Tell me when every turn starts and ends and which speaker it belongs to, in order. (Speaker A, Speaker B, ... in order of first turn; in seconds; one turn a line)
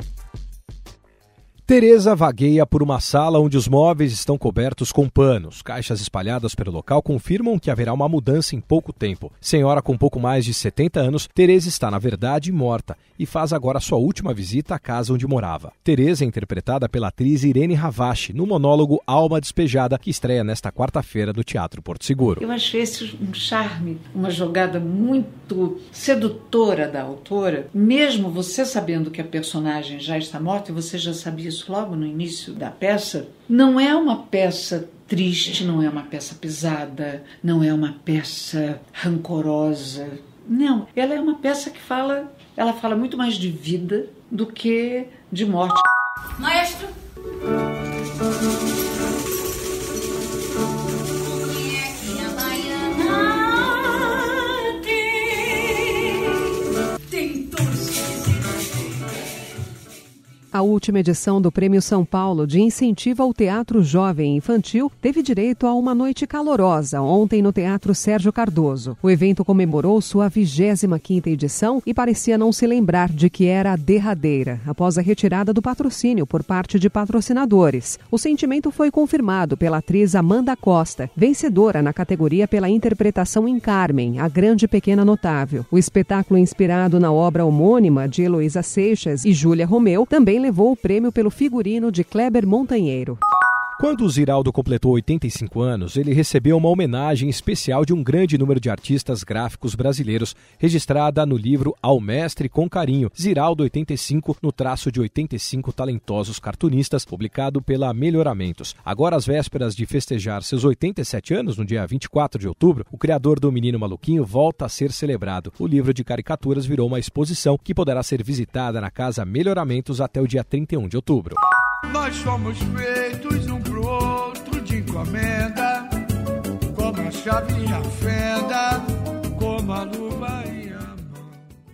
Speaker A: 1.7-22.4
Speaker B: 22.4-45.8
Speaker C: 46.4-46.9
Speaker C: 51.3-56.5
Speaker C: 57.1-58.1
Speaker D: 60.5-93.2
Speaker A: 93.8-121.4
Speaker E: 121.9-125.9
Speaker E: 126.7-131.3